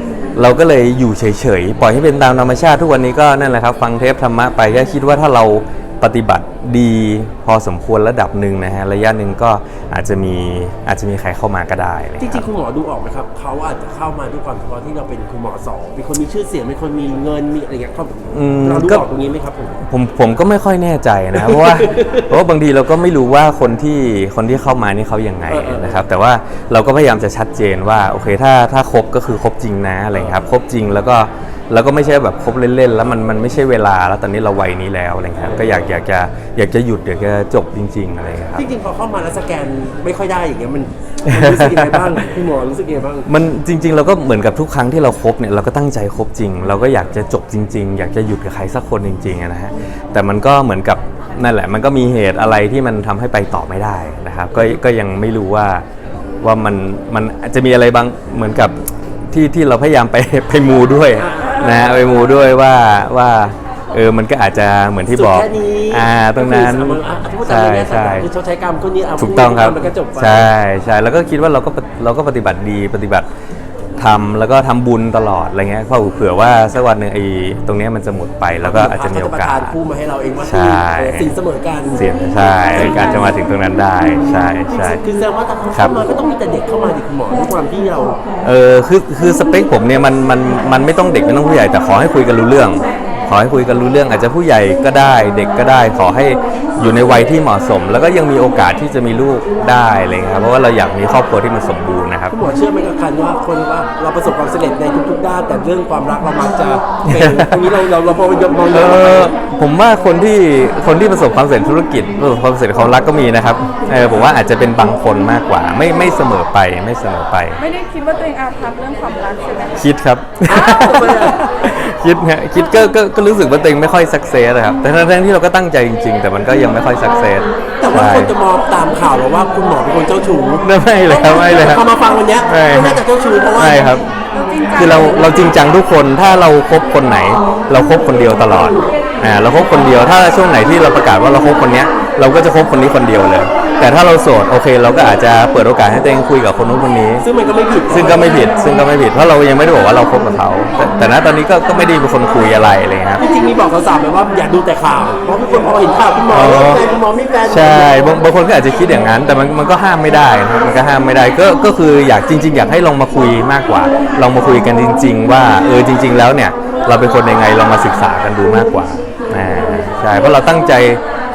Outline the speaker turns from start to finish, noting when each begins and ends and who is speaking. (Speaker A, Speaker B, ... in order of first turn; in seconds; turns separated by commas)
Speaker A: 0.3-12.4, Speaker B: 12.2-19.8, Speaker A: 18.3-19.1, Speaker A: 19.9-38.6, Speaker B: 21.3-22.3, Speaker B: 25.5-26.0, Speaker B: 38.5-43.3, Speaker A: 41.2-42.2, Speaker A: 43.3-55.8, Speaker B: 54.5-54.8, Speaker A: 56.4-58.8, Speaker A: 59.3-68.3, Speaker B: 61.1-62.2, Speaker B: 65.1-70.5, Speaker A: 69.2-73.2, Speaker A: 74.0-79.8, Speaker B: 78.6-82.0, Speaker A: 80.4-81.3, Speaker A: 81.9-85.0, Speaker B: 82.7-83.4, Speaker B: 84.0-88.2, Speaker A: 88.4-102.4, Speaker B: 102.3-109.4, Speaker A: 107.0-107.7, Speaker A: 108.7-117.6, Speaker C: 117.6-119.9, Speaker A: 119.8-128.3, Speaker B: 120.5-121.4, Speaker B: 127.8-134.0, Speaker A: 130.6-131.8, Speaker A: 132.5-133.0, Speaker A: 133.6-134.0, Speaker C: 134.3-135.5, Speaker A: 134.8-147.2, Speaker B: 147.2-148.5, Speaker A: 147.9-153.2, Speaker B: 153.2-157.9, Speaker A: 156.3-156.8, Speaker A: 157.5-171.0